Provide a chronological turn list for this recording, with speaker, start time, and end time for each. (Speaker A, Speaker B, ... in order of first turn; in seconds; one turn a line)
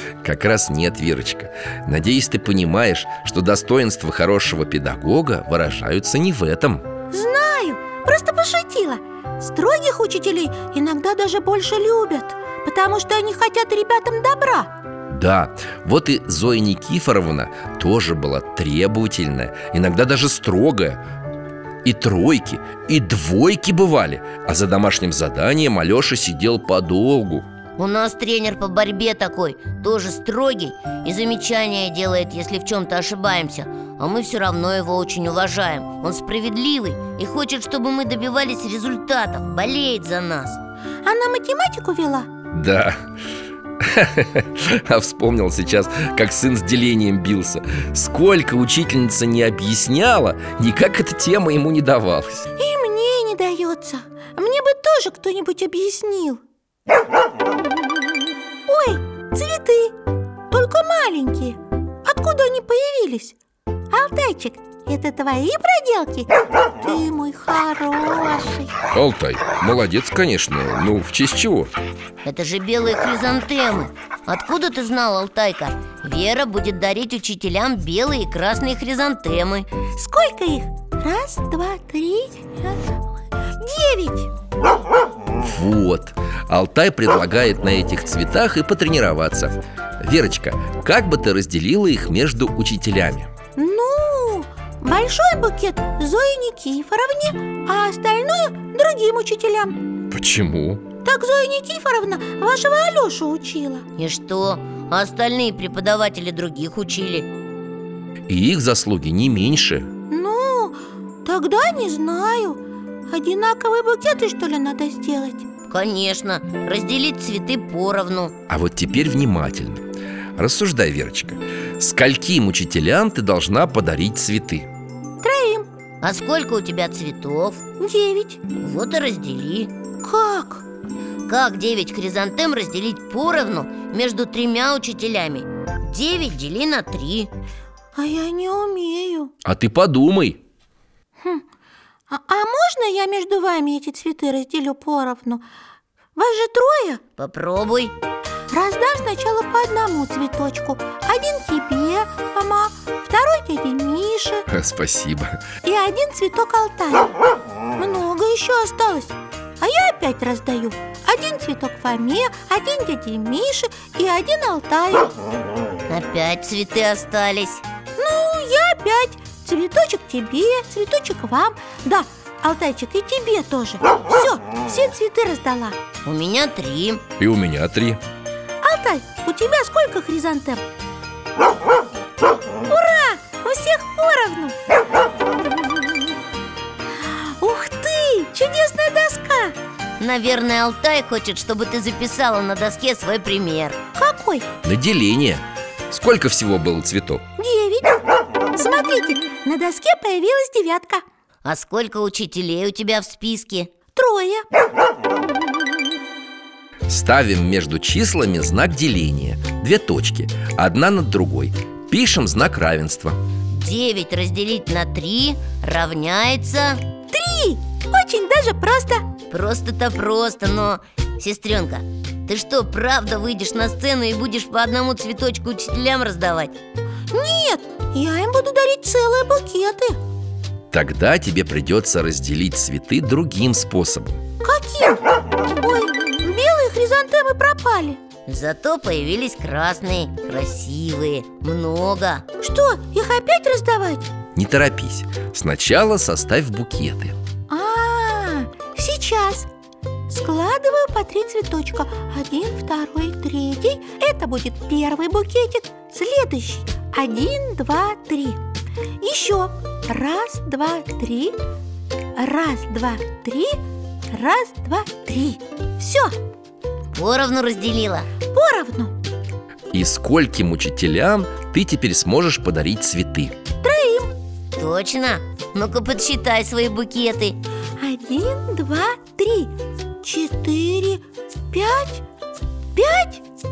Speaker A: 0.2-6.8
Speaker B: 7.1-14.7
Speaker A: 15.1-21.0
Speaker A: 21.8-27.5
Speaker C: 27.8-40.6
Speaker B: 41.0-42.3
Speaker A: 42.5-43.0
Speaker A: 43.8-52.5
Speaker B: 52.6-56.4
Speaker B: 58.7-60.0
Speaker B: 60.5-63.4
Speaker B: 63.9-66.3
Speaker B: 66.8-68.7
Speaker A: 68.9-71.7
Speaker C: 72.2-79.7
Speaker B: 80.0-82.8
Speaker B: 83.6-84.3
Speaker A: 85.4-93.3
Speaker B: 93.6-99.8
Speaker A: 100.1-100.8
Speaker B: 101.0-103.8
Speaker C: 104.0-107.3
Speaker A: 108.3-109.9
Speaker B: 110.1-115.5
Speaker C: 115.7-118.3
Speaker A: 118.5-119.8
Speaker A: 120.4-124.7
Speaker B: 125.2-125.7
Speaker C: 126.0-127.6
Speaker B: 127.8-128.4
Speaker C: 128.5-129.7
Speaker B: 130.0-130.6
Speaker C: 131.3-137.3
Speaker B: 138.0-139.3
Speaker A: 139.4-140.4
Speaker B: 142.1-145.4
Speaker B: 146.2-147.0
Speaker C: 147.2-147.9
Speaker B: 148.5-154.4
Speaker A: 154.5-155.4
Speaker B: 155.6-157.2
Speaker B: 157.8-165.1
Speaker C: 165.9-167.6
Speaker B: 168.0-175.8
Speaker C: 176.0-177.0
Speaker A: 177.2-178.0
Speaker B: 178.6-180.6
Speaker B: 182.7-184.6
Speaker B: 187.0-189.6
Speaker C: 190.0-193.8
Speaker B: 194.0-194.5
Speaker A: 194.6-197.2
Speaker B: 197.4-201.0
Speaker C: 201.4-203.7
Speaker B: 203.9-204.4
Speaker A: 206.9-213.2
Speaker C: 213.5-216.8
Speaker B: 217.1-219.0
Speaker C: 219.3-226.6
Speaker B: 227.1-230.0
Speaker A: 230.7-234.2
Speaker B: 234.4-235.0
Speaker B: 235.6-238.0
Speaker C: 238.3-242.2
Speaker B: 242.4-244.1
Speaker A: 244.4-247.2
Speaker B: 247.5-249.5
Speaker B: 250.1-258.4
Speaker B: 259.0-261.4
Speaker B: 262.2-263.6
Speaker B: 264.1-266.1
Speaker C: 266.9-268.1
Speaker B: 268.3-268.9
Speaker A: 269.7-273.3
Speaker B: 273.6-274.1
Speaker C: 274.6-277.4
Speaker B: 277.8-282.0
Speaker B: 282.8-283.2